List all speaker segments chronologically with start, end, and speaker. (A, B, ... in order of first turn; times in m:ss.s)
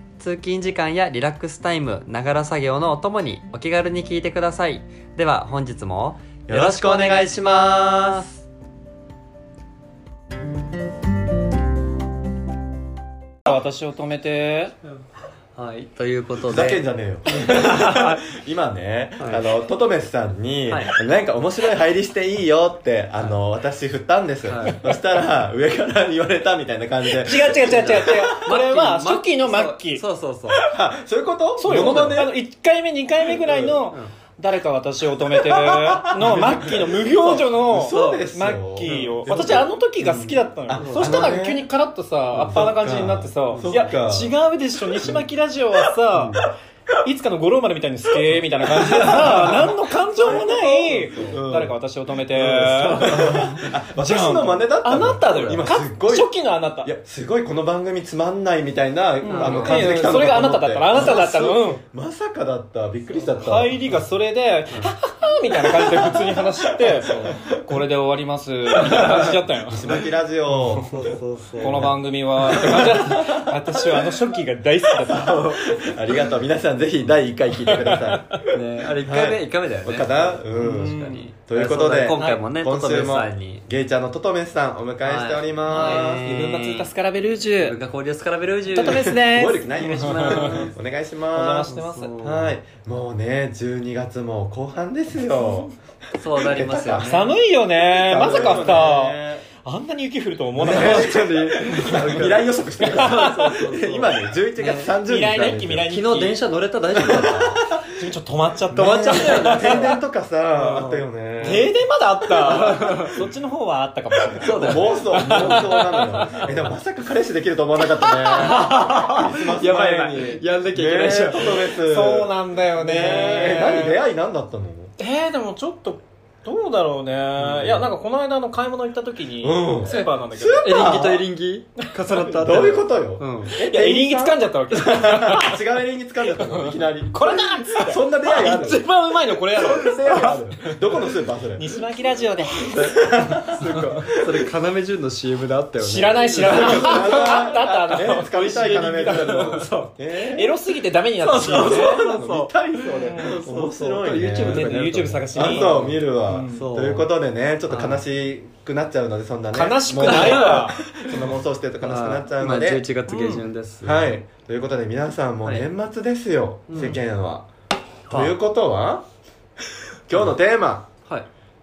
0:00.2-0:08.2 A
0:06.5-0:08.4 B
0:13.4-0:14.7 C
0:15.6-0:18.1 A
0:16.5-0:28.5 B
0:19.2-0:19.4 A
0:20.7-0:21.0 A
0:24.4-0:24.8 A
0:27.1-0:30.0 C
0:28.3-0:30.6 A
0:30.6-0:32.4 B
0:31.6-0:46.5 C
0:33.2-0:33.8 B
0:35.3-0:39.7 B
0:37.9-0:38.2 A
0:40.0-0:41.3 A
0:40.7-0:41.6 B
0:42.4-0:42.7 A
0:42.4-0:44.3 B
0:46.1-0:46.4 A
0:47.0-0:56.9 C
0:48.2-0:51.8 B
0:50.9-0:51.3 A
0:52.3-0:56.3 B
0:56.8-1:03.8 B
0:59.2-0:59.9 A
0:59.2-1:01.8 C
1:03.4-1:10.0 C
1:05.7-1:07.6 B
1:07.0-1:07.4 A
1:08.8-1:14.3 B
1:10.6-1:10.9 C
1:10.7-1:11.9 A
1:11.6-1:15.6 C
1:14.9-1:26.4 B
1:17.6-1:18.2 C
1:18.5-1:23.6 A
1:20.6-1:21.3 C
1:22.1-1:22.4 C
1:25.0-1:26.9 A
1:25.7-1:27.8 C
1:27.6-1:29.2 A
1:28.7-1:30.7 C
1:28.8-1:35.7 B
1:29.7-1:30.7 A
1:31.3-1:32.1 C
1:31.7-1:32.5 A
1:36.2-1:37.3 A
1:36.3-1:37.2 B
1:37.0-1:42.2 C
1:38.0-1:39.4 B
1:38.2-1:38.7 A
1:40.6-1:45.9 B
1:40.6-1:47.6 A
1:42.8-1:43.5 C
1:45.0-1:46.4 C
1:46.9-1:48.1 B
1:47.9-1:49.9 C
1:48.7-1:51.7 B
1:48.8-1:50.0 A
1:50.6-1:51.7 A
1:51.4-1:56.5 C
1:52.3-1:53.1 B
1:52.4-1:53.1 A
1:54.4-1:56.4 A
1:54.4-2:04.9 B
1:58.2-2:01.6 A
1:58.2-2:00.4 C
2:01.4-2:04.0 C
2:05.0-2:10.8 C
2:07.5-2:07.8 B
2:09.4-2:11.2 B
2:10.6-2:13.6 A
2:11.8-2:12.3 C
2:12.3-2:18.8 B
2:13.6-2:15.6 C
2:16.4-2:23.0 C
2:19.5-2:21.8 B
2:22.6-2:24.5 B
2:22.8-2:27.5 A
2:23.6-2:23.9 C
2:25.8-2:32.0 C
2:26.2-2:30.5 B
2:31.2-2:34.8 B
2:31.2-2:37.1 A
2:32.9-2:33.4 C
2:34.2-2:36.6 C
2:35.3-2:42.8 B
2:37.7-2:38.0 A
2:39.5-2:41.2 C
2:40.0-2:40.8 A
2:41.8-2:44.1 A
2:43.1-2:43.4 C
2:43.8-2:47.5 B
2:46.7-2:47.0 A
2:48.1-2:48.3 A
2:48.1-2:49.0 B
2:50.1-2:50.9 B